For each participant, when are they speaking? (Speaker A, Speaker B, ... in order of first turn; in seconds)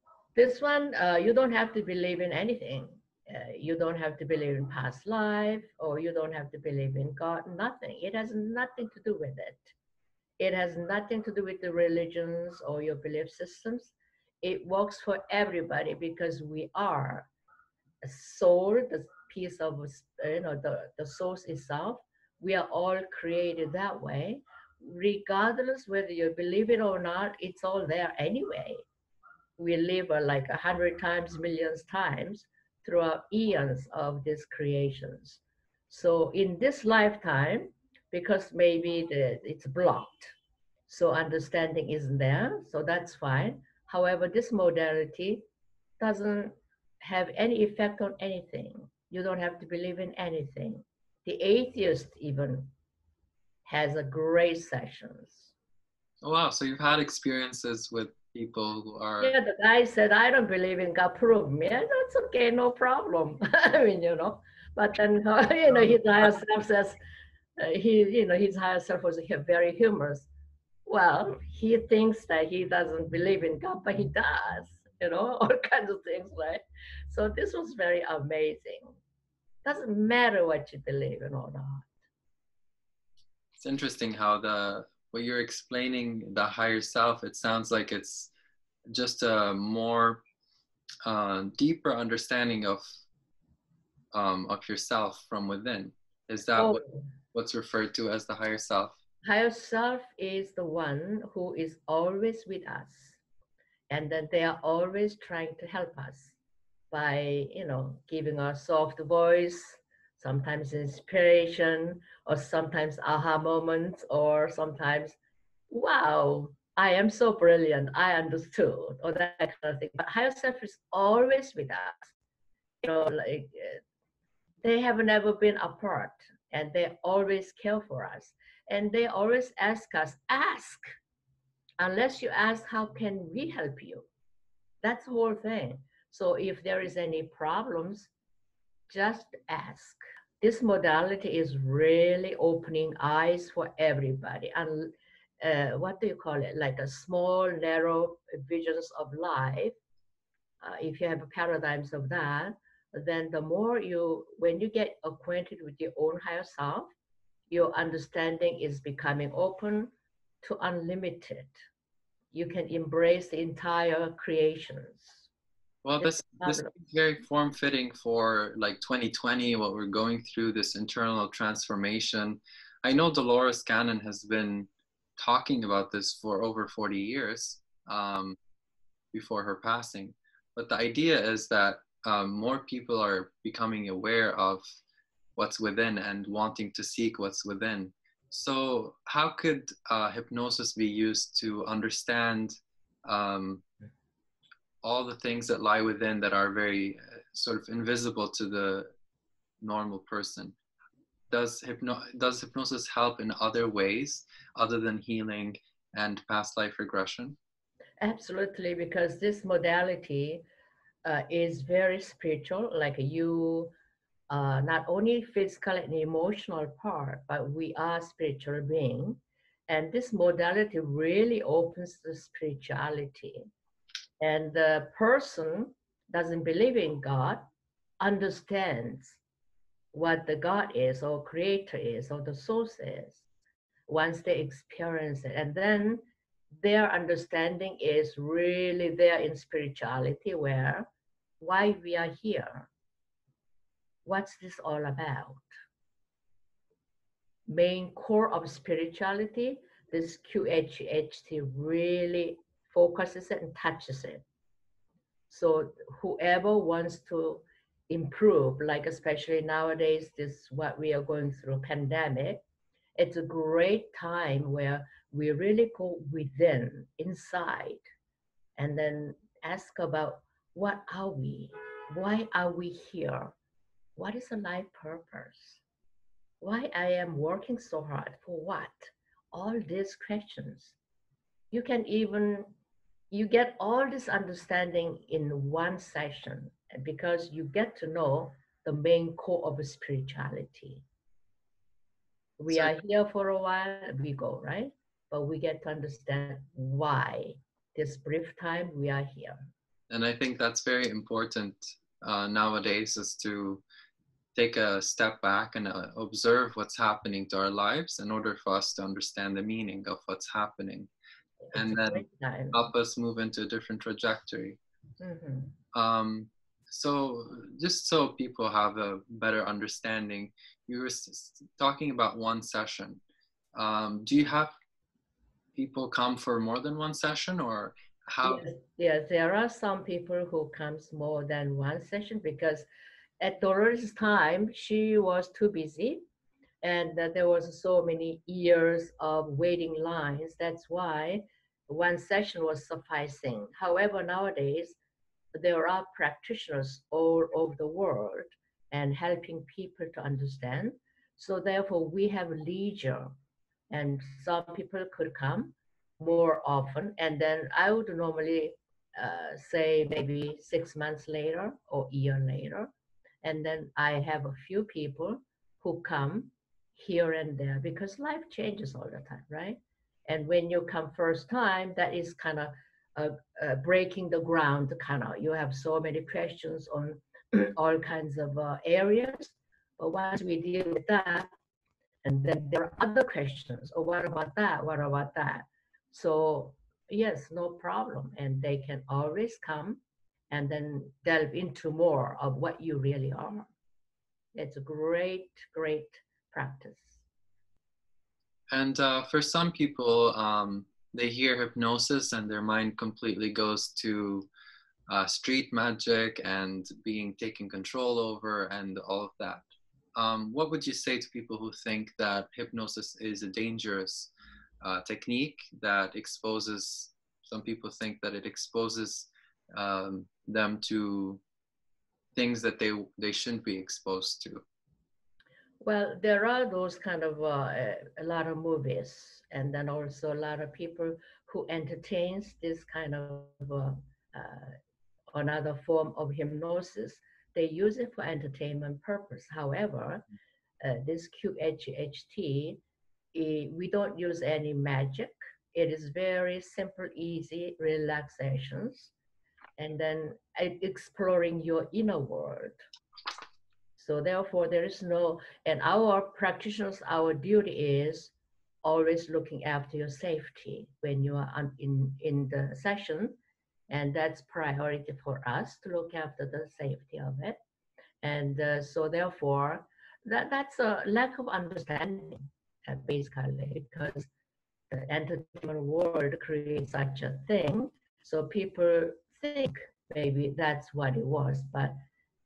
Speaker A: 0.4-9.7, 10.4-17.3, 18.0-28.8, 29.6-40.4, 40.9-45.5, 46.0-52.7, 53.7-55.5, 59.2-67.0, 67.6-70.3, 70.9-79.0, 79.7-81.9, 96.6-97.0, 99.2-103.2, 103.9-106.4, 106.9-115.2, 115.7-122.1, 122.8-123.8, 124.6-130.9, 131.8-134.1, 134.8-138.1, 138.9-144.9, 145.4-149.8, 150.6-156.9, 157.5-161.6, 162.3-165.3, 166.0-166.7, 208.0-210.4, 211.1-213.7, 214.3-223.5, 224.2-227.5, 228.0-229.2, 229.9-233.2, 233.9-236.0, 236.6-240.9, 241.4-242.7, 244.1-245.5, 247.5-254.2, 255.3-262.4, 263.0-267.8, 268.6-273.4, 274.0-275.6, 276.4-280.8, 281.5-282.5, 283.1-290.9, 292.4-299.5, 311.5-312.6, 315.0-315.5, 328.2-332.7, 333.2-336.0, 336.6-344.8, 345.3-353.1, 353.7-362.7, 363.2-381.3, 382.0-393.5, 394.4-397.0, 425.6-434.6, 435.1-440.1, 440.6-442.6, 443.1-448.9, 449.6-452.6, 453.8-463.2, 463.7-467.4, 468.0-474.1, 474.7-481.8
Speaker B: 56.2-59.3, 83.6-88.3, 88.9-90.2, 91.0-93.0, 94.1-96.8, 97.3-99.0, 165.8-178.4, 179.1-184.8, 185.4-193.6, 194.8-198.9, 199.6-200.6, 201.3-207.4, 299.9-303.6, 304.4-310.9, 311.5-314.6, 315.7-323.0, 323.6-324.5, 325.6-328.5, 398.5-404.3, 404.9-409.4, 410.0-414.1, 414.6-421.2, 422.1-424.4